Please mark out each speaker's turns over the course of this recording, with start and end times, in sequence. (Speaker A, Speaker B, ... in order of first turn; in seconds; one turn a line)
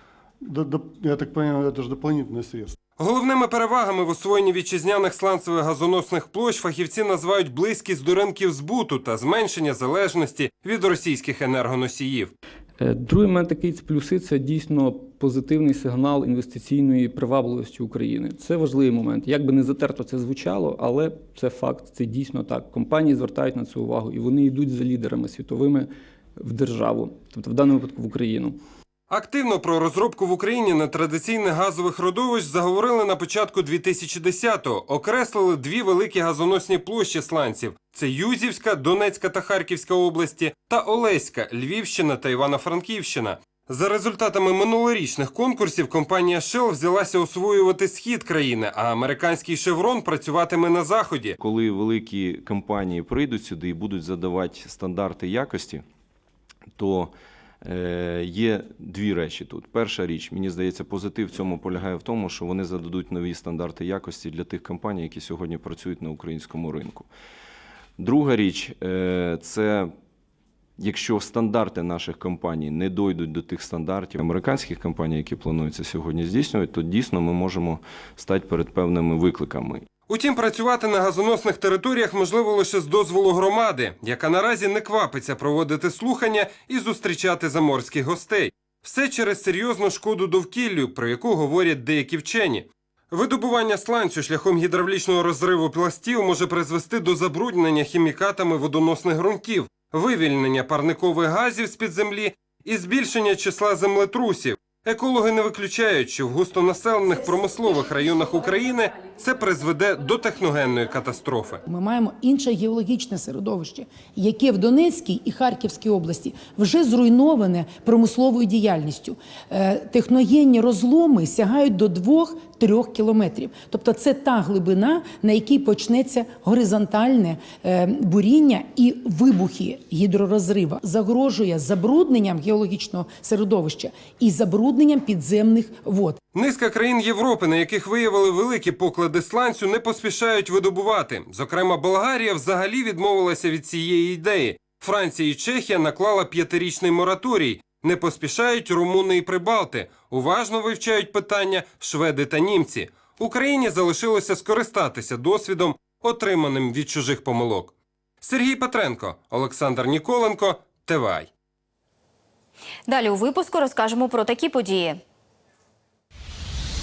Speaker A: 0.4-2.8
Speaker B: 3.0-12.3
Speaker C: 12.8-28.6
Speaker B: 29.1-51.4
Speaker D: 51.4-55.8
Speaker D: 56.8-57.1
Speaker D: 57.6-67.1
Speaker D: 68.0-69.9
Speaker D: 70.8-79.8
Speaker B: 80.1-111.6
Speaker E: 111.7-136.2
Speaker B: 136.3-161.3
Speaker F: 162.9-165.0